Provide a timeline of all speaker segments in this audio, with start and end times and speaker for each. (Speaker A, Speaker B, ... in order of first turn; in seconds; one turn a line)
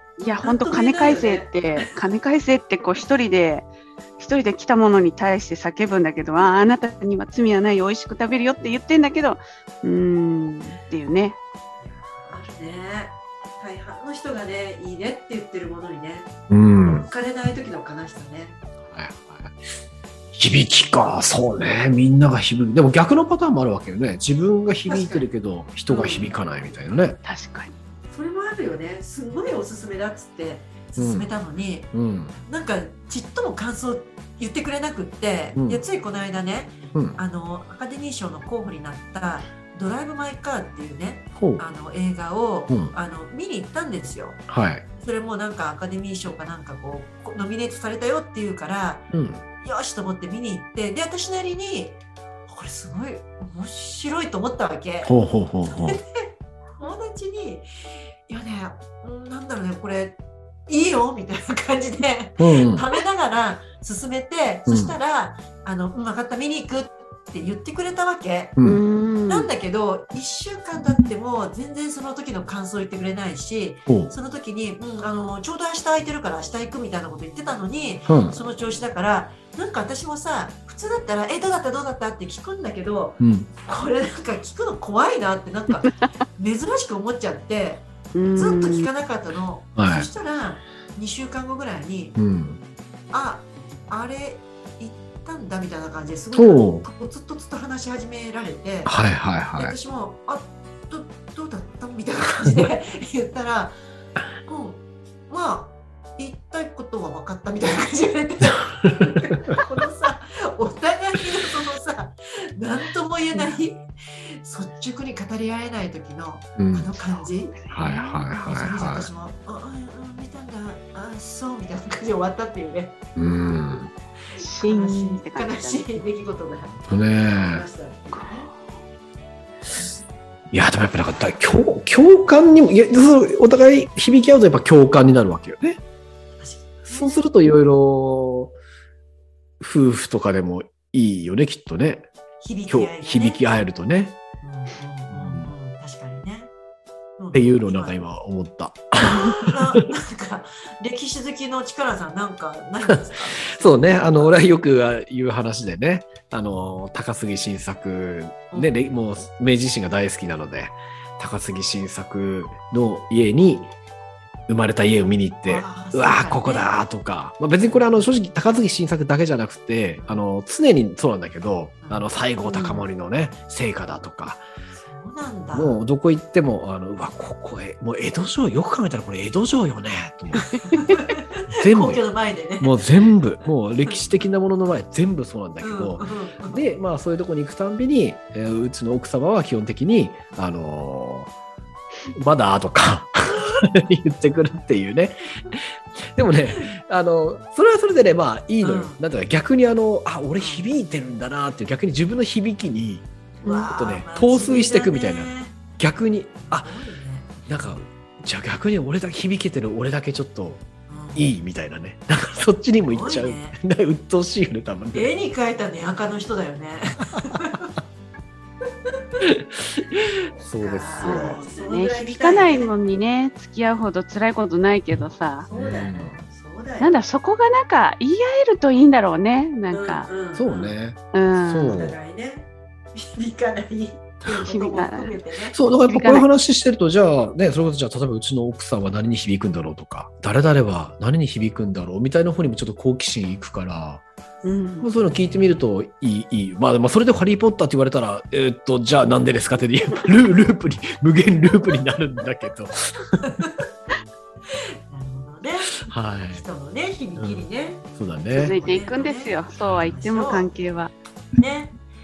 Speaker A: 0.2-11.3
Speaker B: 0.4-1.9
Speaker B: 11.8-16.3
Speaker C: 16.5-17.1
Speaker B: 16.9-18.6
Speaker C: 18.8-19.6
Speaker C: 20.3-27.2
Speaker B: 24.8-25.3
Speaker B: 25.9-26.4
Speaker A: 27.2-27.7
Speaker B: 28.1-44.4
Speaker C: 31.0-31.3
Speaker C: 31.9-32.3
Speaker C: 35.5-35.8
Speaker C: 41.4-41.6
Speaker C: 44.5-44.8
Speaker B: 44.9-55.1
Speaker C: 49.1-49.4
Speaker C: 55.0-56.0
Speaker B: 55.6-57.7
Speaker B: 58.3-68.6
Speaker C: 62.4-62.8
Speaker C: 64.7-64.9
Speaker A: 68.6-69.5
Speaker B: 69.3-92.2
Speaker C: 73.9-74.1
Speaker C: 78.1-78.4
Speaker C: 83.2-83.5
Speaker A: 88.1-88.9
Speaker C: 89.8-90.1
Speaker C: 92.2-92.6
Speaker B: 93.1-99.0
Speaker C: 96.3-96.8
Speaker C: 98.8-99.7
Speaker B: 99.5-103.8
Speaker B: 104.5-123.0
Speaker C: 116.6-116.9
Speaker A: 117.2-118.0
Speaker C: 117.7-119.1
Speaker C: 123.2-123.9
Speaker B: 124.3-128.5
Speaker A: 124.4-126.0
Speaker C: 126.9-127.6
Speaker A: 128.1-128.8
Speaker C: 130.5-135.8
Speaker B: 136.4-137.2
Speaker C: 136.9-138.5
Speaker C: 139.6-142.1
Speaker B: 142.4-143.4
Speaker C: 142.7-144.2
Speaker B: 144.4-146.5
Speaker C: 145.1-145.5
Speaker B: 147.2-148.0
Speaker C: 147.3-149.8
Speaker B: 149.2-154.4
Speaker C: 153.5-163.7
Speaker B: 158.5-158.8
Speaker C: 164.5-174.4
Speaker B: 165.4-166.8
Speaker B: 170.0-170.2
Speaker B: 171.8-172.8
Speaker B: 174.7-175.8
Speaker C: 175.5-182.0
Speaker B: 180.7-182.8
Speaker C: 182.6-191.3
Speaker B: 185.6-186.7
Speaker C: 192.1-195.6
Speaker C: 196.2-203.1
Speaker B: 198.6-199.0
Speaker B: 200.3-200.7
Speaker B: 203.4-205.6
Speaker A: 203.4-203.7
Speaker C: 203.7-206.7
Speaker B: 206.4-207.7
Speaker C: 207.4-215.1
Speaker B: 210.9-211.3
Speaker B: 212.8-213.6
Speaker B: 214.9-217.7
Speaker C: 219.2-221.4
Speaker B: 220.4-222.7
Speaker A: 221.0-225.5
Speaker B: 225.4-226.9
Speaker C: 225.5-226.2
Speaker A: 226.8-230.1
Speaker B: 229.7-230.7
Speaker C: 230.3-232.0
Speaker A: 231.1-231.8
Speaker B: 231.6-235.6
Speaker A: 234.2-235.2
Speaker C: 235.5-244.0
Speaker A: 235.9-236.3
Speaker A: 244.4-244.9
Speaker C: 244.8-252.7
Speaker B: 245.0-245.6
Speaker B: 253.2-253.5
Speaker B: 254.9-260.5
Speaker C: 255.9-256.4
Speaker C: 257.2-257.4
Speaker C: 258.0-258.6
Speaker A: 258.3-260.9
Speaker B: 261.4-261.7